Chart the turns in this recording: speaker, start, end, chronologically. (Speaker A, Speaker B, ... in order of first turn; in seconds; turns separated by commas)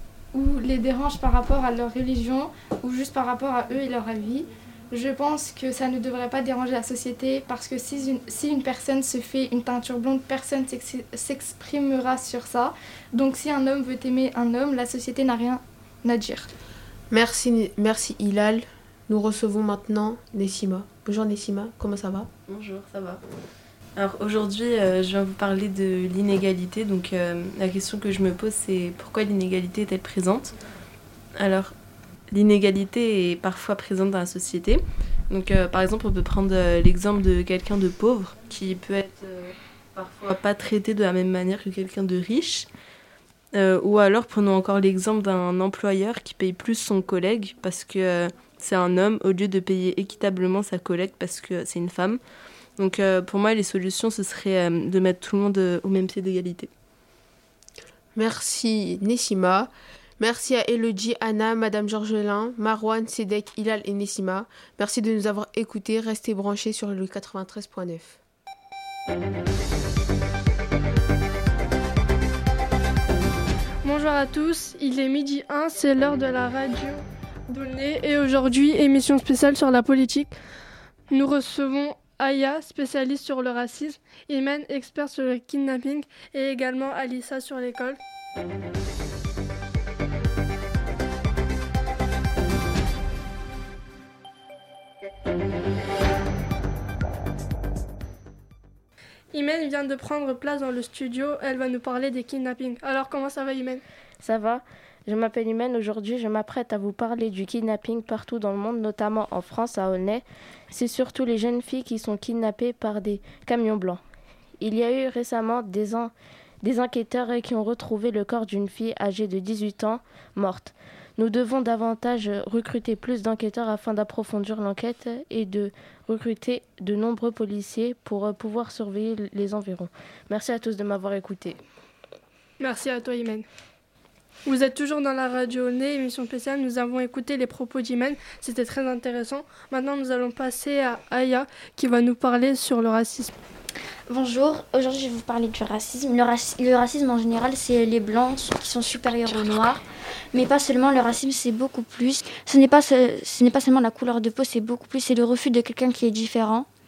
Speaker A: 0.3-16.5, Speaker B: 17.1-22.3, Speaker C: 22.5-23.2, Speaker C: 23.9-30.5, Speaker C: 31.3-31.7, Speaker C: 32.3-42.7, Speaker C: 43.5-52.2, Speaker C: 52.8-56.7, Speaker B: 58.1-68.2, Speaker D: 73.8-80.3, Speaker D: 81.1-88.0, Speaker D: 99.3-103.8, Speaker E: 104.2-114.0, Speaker E: 114.6-116.1, Speaker E: 116.6-131.6, Speaker D: 132.6-133.5, Speaker D: 134.4-143.3, Speaker F: 144.1-156.7